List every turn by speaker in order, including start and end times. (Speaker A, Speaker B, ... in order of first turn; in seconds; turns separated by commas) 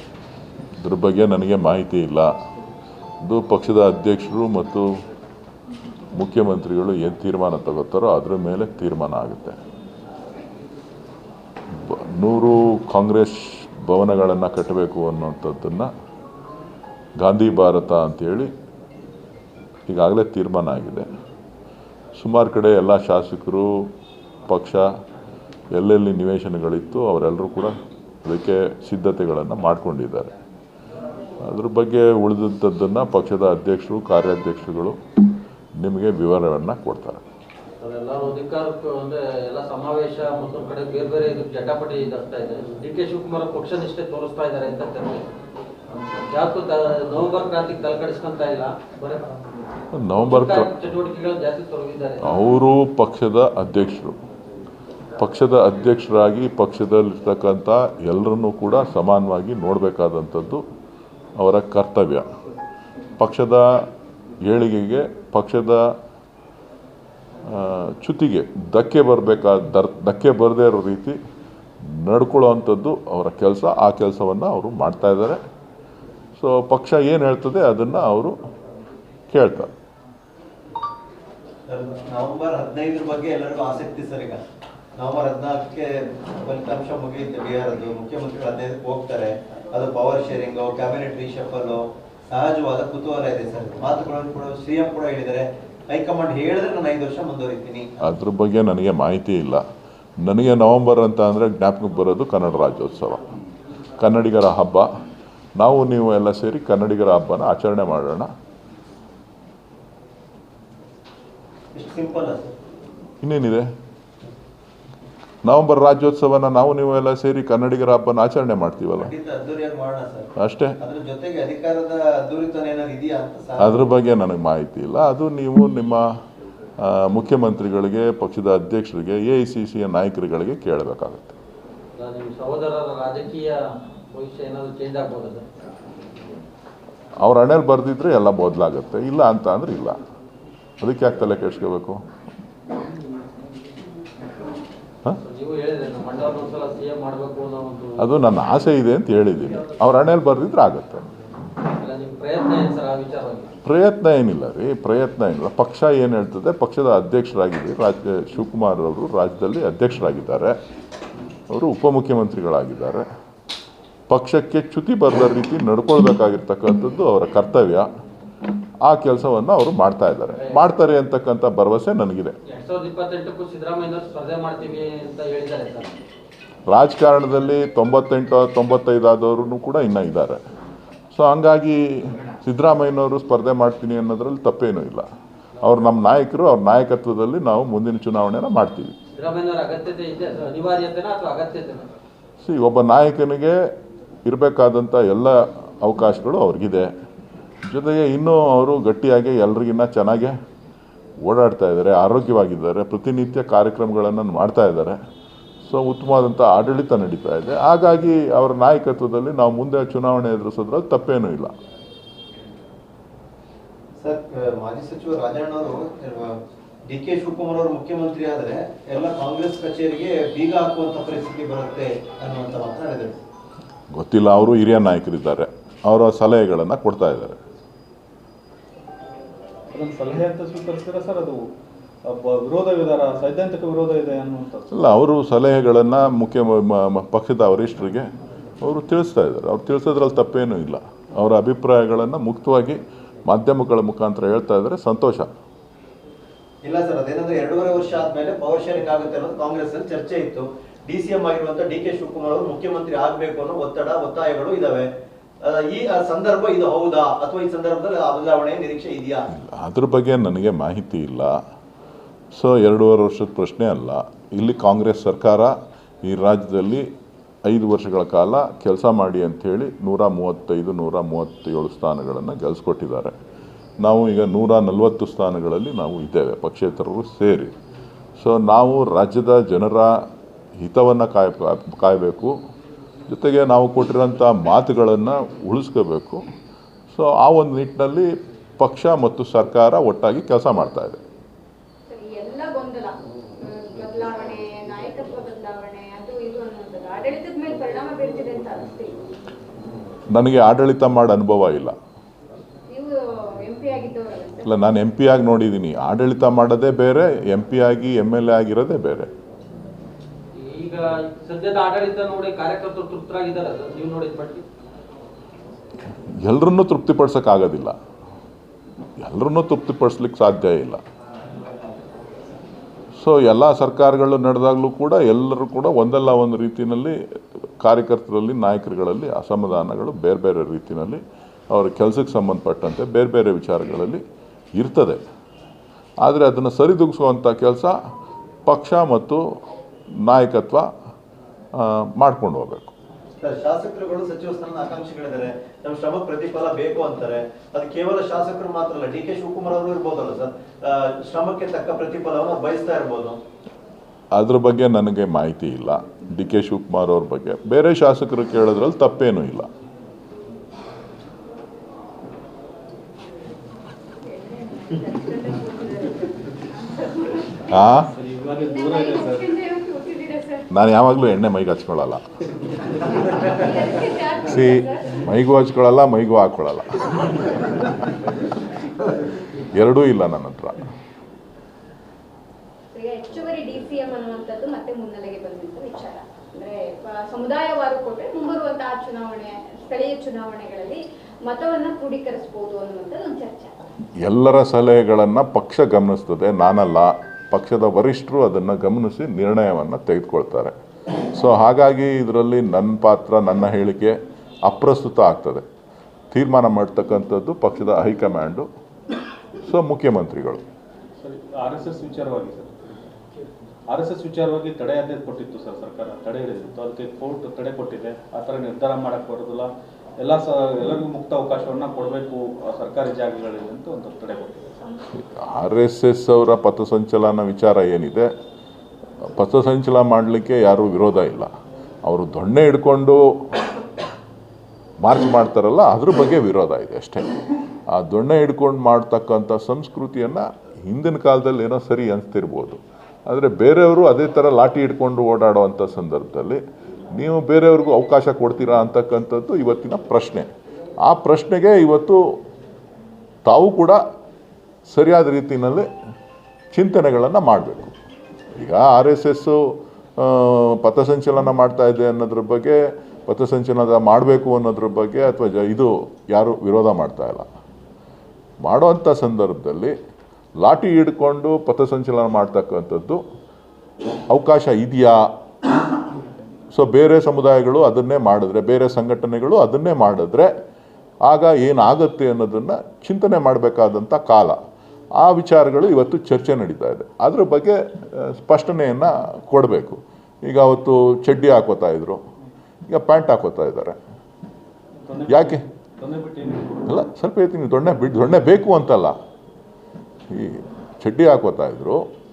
Speaker A: 0.8-2.3, Speaker A: 3.2-4.9, Speaker A: 6.2-9.6, Speaker A: 11.7-15.9, Speaker A: 17.2-18.5, Speaker A: 19.9-21.1, Speaker A: 22.2-23.9, Speaker A: 24.5-24.9, Speaker A: 25.7-30.3, Speaker A: 31.4-35.0, Speaker A: 35.8-37.2, Speaker B: 37.8-45.3, Speaker B: 46.1-49.3, Speaker A: 49.9-50.9, Speaker B: 50.2-52.4, Speaker A: 52.2-54.1, Speaker A: 55.2-60.6, Speaker A: 61.4-62.2, Speaker A: 63.2-63.7, Speaker A: 64.4-65.9, Speaker A: 67.5-71.2, Speaker A: 71.9-75.4, Speaker A: 76.3-78.3, Speaker A: 79.3-79.7, Speaker C: 81.7-84.4, Speaker C: 85.0-91.8, Speaker C: 92.3-97.9, Speaker A: 98.0-99.6, Speaker A: 100.2-103.3, Speaker A: 104.0-104.9, Speaker A: 105.6-108.3, Speaker C: 111.7-112.5, Speaker A: 113.2-113.7, Speaker A: 115.5-119.1, Speaker C: 119.0-120.3, Speaker A: 120.4-120.8, Speaker C: 120.8-123.8, Speaker A: 123.6-126.1, Speaker A: 126.8-131.3, Speaker B: 131.9-135.4, Speaker A: 137.2-140.0, Speaker A: 140.8-142.0, Speaker B: 145.2-148.1, Speaker A: 148.0-151.1, Speaker B: 151.7-153.5, Speaker A: 153.6-160.5, Speaker A: 161.5-163.0, Speaker A: 164.1-167.9, Speaker A: 168.8-172.3, Speaker B: 170.4-170.7, Speaker B: 172.5-175.9, Speaker A: 176.7-180.4, Speaker A: 181.1-185.0, Speaker A: 185.6-188.9, Speaker B: 189.1-191.9, Speaker A: 192.4-193.7, Speaker A: 194.2-196.9, Speaker A: 197.7-200.3, Speaker A: 201.2-205.0, Speaker A: 205.6-211.5, Speaker C: 214.0-216.3, Speaker C: 216.9-223.2, Speaker A: 223.9-227.4, Speaker D: 229.7-231.4, Speaker D: 232.1-234.8, Speaker A: 234.7-238.1, Speaker A: 238.6-245.3, Speaker C: 246.6-254.9, Speaker C: 255.4-259.2, Speaker A: 259.3-261.4, Speaker A: 262.3-266.9, Speaker A: 267.4-273.1, Speaker A: 273.8-277.5, Speaker A: 278.2-279.9, Speaker A: 280.6-282.4, Speaker A: 283.1-286.2, Speaker A: 286.9-291.0, Speaker E: 291.9-298.9, Speaker A: 300.1-301.7, Speaker E: 302.7-304.5, Speaker A: 304.4-309.1, Speaker B: 310.3-314.4, Speaker A: 316.2-317.7, Speaker A: 319.0-320.8, Speaker A: 323.0-327.0, Speaker A: 327.6-334.0, Speaker A: 334.6-335.0, Speaker A: 336.0-337.8, Speaker A: 338.4-339.2, Speaker A: 340.1-340.6, Speaker A: 341.6-342.7, Speaker C: 343.2-353.2, Speaker A: 354.1-359.5, Speaker E: 364.0-367.8, Speaker A: 367.5-367.9, Speaker D: 367.8-369.3, Speaker E: 368.4-370.5, Speaker A: 370.5-372.0, Speaker E: 373.2-375.1, Speaker A: 374.2-377.4, Speaker A: 379.4-380.6, Speaker E: 382.7-393.5, Speaker A: 394.0-400.5, Speaker A: 401.1-403.9, Speaker A: 404.4-405.4, Speaker A: 406.1-408.5, Speaker A: 409.4-410.4, Speaker D: 411.0-412.8, Speaker D: 413.7-424.6, Speaker A: 424.9-428.1, Speaker A: 429.1-431.3, Speaker A: 431.9-433.0, Speaker A: 434.8-437.1, Speaker A: 437.7-446.4, Speaker A: 446.9-450.3, Speaker A: 450.8-452.0, Speaker A: 453.2-453.8, Speaker A: 454.7-455.7, Speaker A: 456.5-457.7, Speaker A: 458.3-459.4, Speaker A: 460.0-467.3, Speaker A: 468.4-469.7, Speaker A: 470.4-473.0, Speaker A: 474.1-475.1, Speaker A: 476.5-480.3, Speaker A: 481.0-484.4, Speaker A: 485.0-492.0, Speaker A: 492.7-493.8, Speaker D: 494.8-496.6, Speaker A: 495.1-495.4, Speaker A: 496.6-498.9, Speaker A: 500.1-501.8